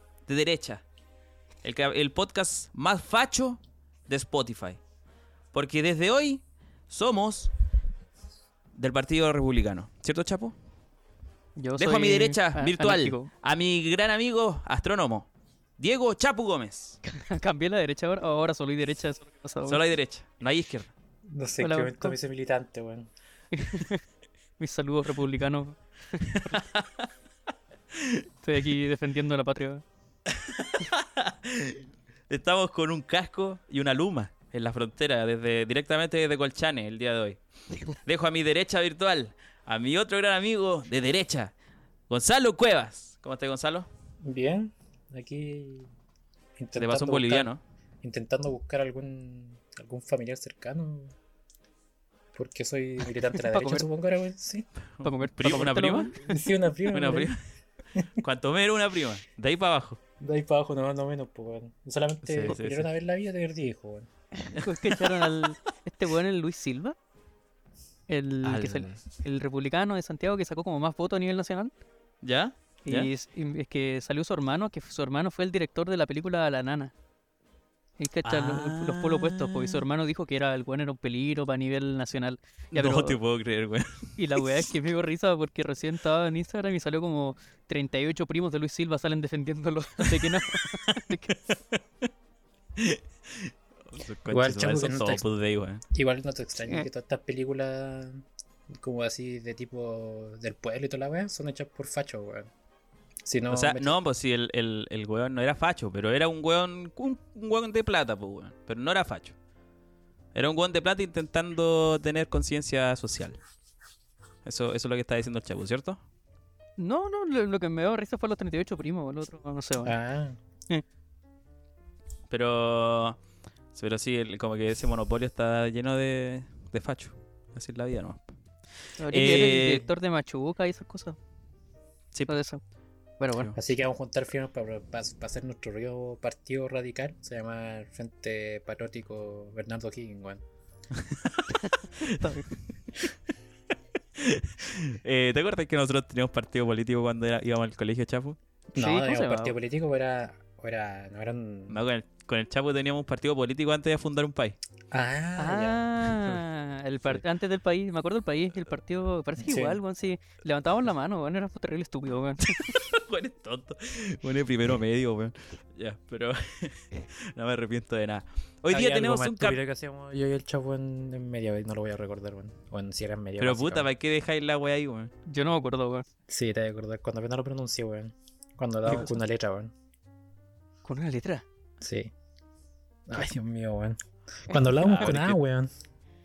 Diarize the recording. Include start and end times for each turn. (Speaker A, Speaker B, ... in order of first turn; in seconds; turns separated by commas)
Speaker A: 0.3-0.8, Speaker A: 1.6-4.8, Speaker A: 5.5-7.5, Speaker A: 8.7-10.6, Speaker B: 11.6-13.3, Speaker A: 11.8-17.0, Speaker B: 17.0-19.8, Speaker A: 19.7-20.9, Speaker C: 21.3-23.1, Speaker B: 21.6-22.2, Speaker B: 23.5-24.0, Speaker B: 24.6-26.6, Speaker A: 26.2-27.1, Speaker A: 27.9-28.3, Speaker B: 28.4-29.8, Speaker A: 30.3-41.5, Speaker A: 42.1-43.9, Speaker C: 44.2-45.9, Speaker C: 46.6-47.5, Speaker A: 46.8-47.6, Speaker C: 48.0-51.1, Speaker C: 52.3-54.7, Speaker B: 53.5-53.9, Speaker A: 55.0-56.1, Speaker B: 55.0-56.4, Speaker C: 56.2-57.3, Speaker A: 56.9-57.4, Speaker C: 58.0-58.2, Speaker A: 58.2-60.0, Speaker C: 60.2-64.1, Speaker A: 62.2-62.9, Speaker B: 64.5-67.0, Speaker A: 64.6-65.2, Speaker B: 68.1-71.7, Speaker A: 68.4-69.0, Speaker A: 72.2-73.1, Speaker B: 72.9-76.9, Speaker B: 78.0-83.2, Speaker A: 78.2-79.8, Speaker A: 82.7-84.7, Speaker B: 84.2-91.3, Speaker A: 90.2-91.8, Speaker A: 92.8-95.8, Speaker C: 94.3-95.2, Speaker C: 95.9-102.5, Speaker C: 103.2-104.0, Speaker A: 103.5-109.4, Speaker A: 110.3-113.4, Speaker A: 114.5-116.0, Speaker B: 116.8-120.0, Speaker C: 119.8-120.4, Speaker A: 122.3-123.2, Speaker A: 123.7-128.4, Speaker A: 128.9-129.9, Speaker B: 129.0-131.2, Speaker B: 132.3-132.6, Speaker B: 133.2-133.5, Speaker C: 133.6-140.4, Speaker A: 141.0-142.2, Speaker B: 141.5-142.5, Speaker A: 144.2-148.4, Speaker C: 148.7-151.8, Speaker B: 148.8-149.5, Speaker A: 151.7-154.6, Speaker C: 154.9-155.8, Speaker B: 155.4-162.8, Speaker C: 159.4-159.8, Speaker A: 162.5-169.6, Speaker C: 168.7-173.9, Speaker A: 173.4-175.1, Speaker B: 175.3-176.1, Speaker C: 176.3-179.7, Speaker B: 178.9-179.2, Speaker B: 180.8-181.4, Speaker C: 181.8-182.1, Speaker C: 183.1-185.7, Speaker A: 184.8-185.4